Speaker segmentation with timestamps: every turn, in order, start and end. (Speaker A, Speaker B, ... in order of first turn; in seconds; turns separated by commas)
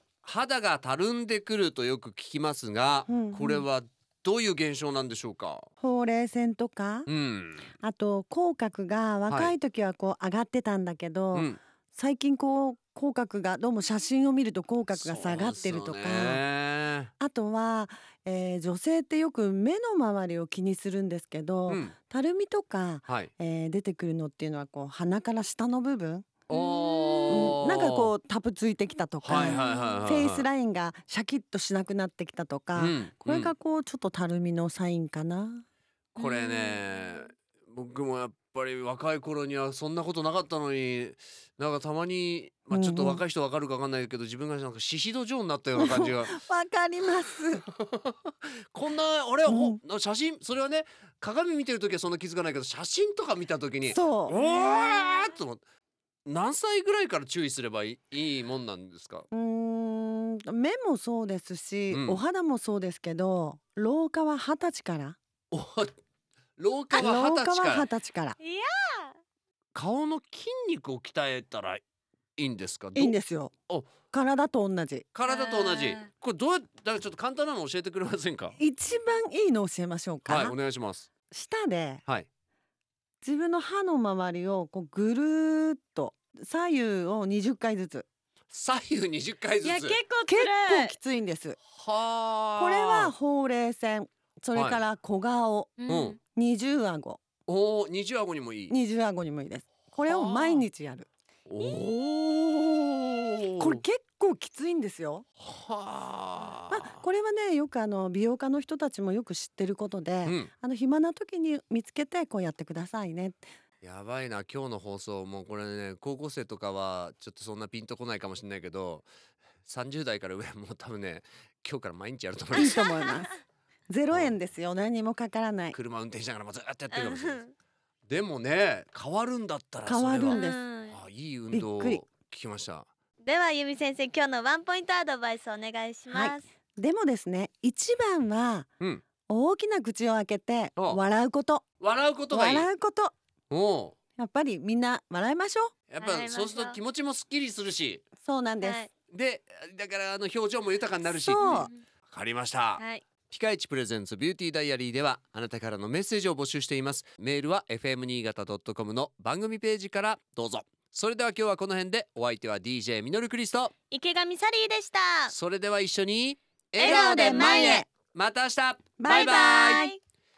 Speaker A: 0.2-5.7, Speaker B: 3.1-3.6, Speaker B: 5.8-7.1, Speaker A: 7.1-7.7, Speaker B: 7.8-16.4, Speaker A: 9.3-9.5, Speaker A: 14.9-17.1, Speaker B: 17.2-26.3, Speaker A: 21.7-21.9, Speaker A: 26.5-28.1, Speaker C: 26.5-27.6, Speaker B: 27.3-35.6, Speaker A: 29.2-30.4, Speaker C: 29.4-30.0, Speaker A: 32.8-33.5, Speaker C: 36.2-36.8, Speaker A: 36.2-46.4, Speaker B: 42.7-43.2, Speaker B: 45.8-47.6, Speaker A: 47.7-55.6, Speaker B: 49.5-49.8, Speaker B: 53.9-54.4, Speaker A: 56.3-59.3, Speaker B: 59.3-65.2, Speaker A: 61.9-62.2, Speaker A: 65.5-66.0, Speaker A: 66.6-67.9, Speaker B: 66.9-68.4, Speaker C: 68.4-69.2, Speaker A: 69.7-71.8, Speaker A: 72.4-73.2, Speaker B: 73.0-73.5, Speaker B: 74.1-75.1, Speaker A: 75.1-78.6, Speaker C: 75.3-76.1, Speaker B: 78.6-80.5, Speaker A: 80.2-81.1, Speaker B: 81.3-82.0, Speaker B: 83.2-88.1, Speaker A: 88.5-90.0, Speaker C: 89.6-91.0, Speaker B: 90.3-91.6, Speaker A: 91.7-93.1, Speaker B: 92.6-95.8, Speaker A: 94.5-94.8, Speaker C: 95.8-96.2, Speaker A: 95.9-96.2, Speaker B: 96.3-97.2, Speaker A: 97.5-98.8, Speaker B: 98.7-101.1, Speaker A: 100.1-100.7, Speaker A: 101.5-103.8, Speaker B: 103.6-105.2, Speaker A: 105.4-107.0, Speaker B: 106.7-113.5, Speaker A: 110.2-110.5, Speaker A: 113.8-119.1, Speaker A: 119.7-122.8, Speaker B: 122.5-123.3, Speaker C: 122.6-123.3, Speaker B: 123.9-125.8, Speaker A: 124.1-124.4, Speaker A: 125.7-127.4, Speaker C: 126.9-127.5, Speaker A: 128.1-132.9, Speaker B: 129.8-130.6, Speaker C: 130.3-131.0, Speaker B: 131.5-132.0, Speaker C: 133.2-136.5, Speaker B: 136.1-138.7, Speaker B: 139.3-141.6, Speaker A: 141.8-142.7, Speaker B: 142.3-143.1, Speaker A: 143.5-144.0, Speaker B: 144.2-145.8, Speaker A: 145.9-148.0, Speaker C: 146.0-146.8, Speaker B: 148.2-148.8, Speaker C: 148.6-148.9, Speaker A: 149.1-163.7, Speaker B: 151.1-151.7, Speaker C: 151.4-151.7, Speaker C: 163.9-165.3, Speaker A: 165.3-169.9, Speaker C: 166.8-167.8, Speaker B: 166.8-167.9, Speaker B: 169.0-169.9, Speaker C: 169.1-170.0